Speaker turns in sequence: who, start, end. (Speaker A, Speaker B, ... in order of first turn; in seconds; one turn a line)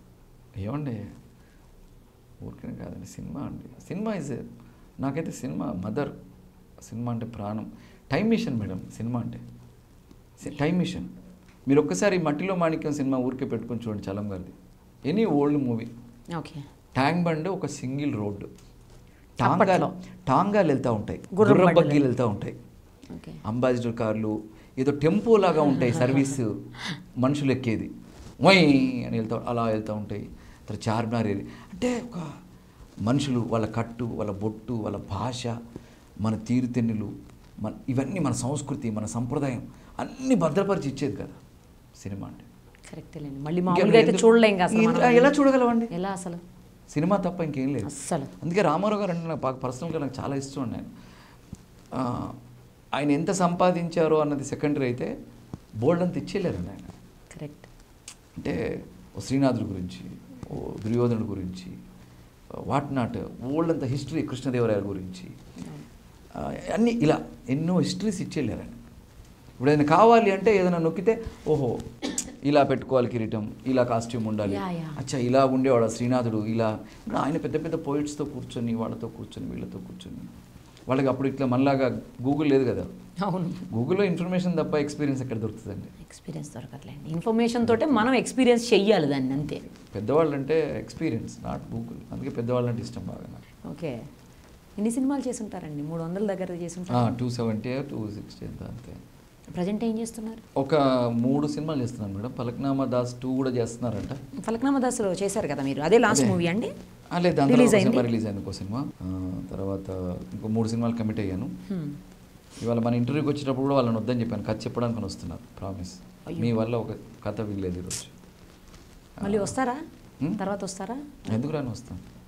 Speaker A: 0.6-1.0
Speaker A: 2.4-4.5
Speaker A: 5.0-6.1
Speaker A: 6.8-9.4
Speaker A: 10.4-11.1
Speaker A: 11.7-14.5
Speaker A: 15.1-15.9
Speaker B: 16.3-16.6
Speaker A: 17.0-18.5
Speaker A: 19.4-22.6
Speaker B: 19.4-19.9
Speaker B: 21.3-22.0
Speaker B: 23.1-23.4
Speaker A: 23.4-26.6
Speaker A: 27.2-32.4
Speaker A: 33.0-35.5
Speaker A: 36.2-41.4
Speaker A: 42.0-42.5
Speaker B: 42.9-45.3
Speaker A: 43.7-45.9
Speaker B: 45.9-46.4
Speaker A: 46.9-50.9
Speaker B: 47.8-48.3
Speaker A: 51.9-52.4
Speaker A: 53.0-55.1
Speaker A: 55.8-56.9
Speaker B: 57.3-57.7
Speaker A: 58.4-61.8
Speaker A: 62.7-65.3
Speaker A: 66.3-68.8
Speaker A: 69.6-71.8
Speaker A: 72.4-80.3
Speaker B: 74.5-75.0
Speaker A: 80.9-82.9
Speaker B: 83.2-83.7
Speaker A: 83.7-85.9
Speaker B: 86.0-89.6
Speaker A: 87.7-88.0
Speaker A: 89.9-93.4
Speaker B: 93.7-94.0
Speaker B: 94.8-97.1
Speaker A: 96.9-99.0
Speaker B: 99.5-100.4
Speaker A: 100.6-104.2
Speaker B: 104.4-106.7
Speaker A: 106.1-106.4
Speaker A: 107.1-111.5
Speaker B: 107.5-108.1
Speaker B: 111.7-112.0
Speaker A: 112.6-118.1
Speaker B: 116.3-116.5
Speaker A: 119.2-119.5
Speaker B: 119.2-119.8
Speaker B: 120.3-121.4
Speaker A: 121.3-122.0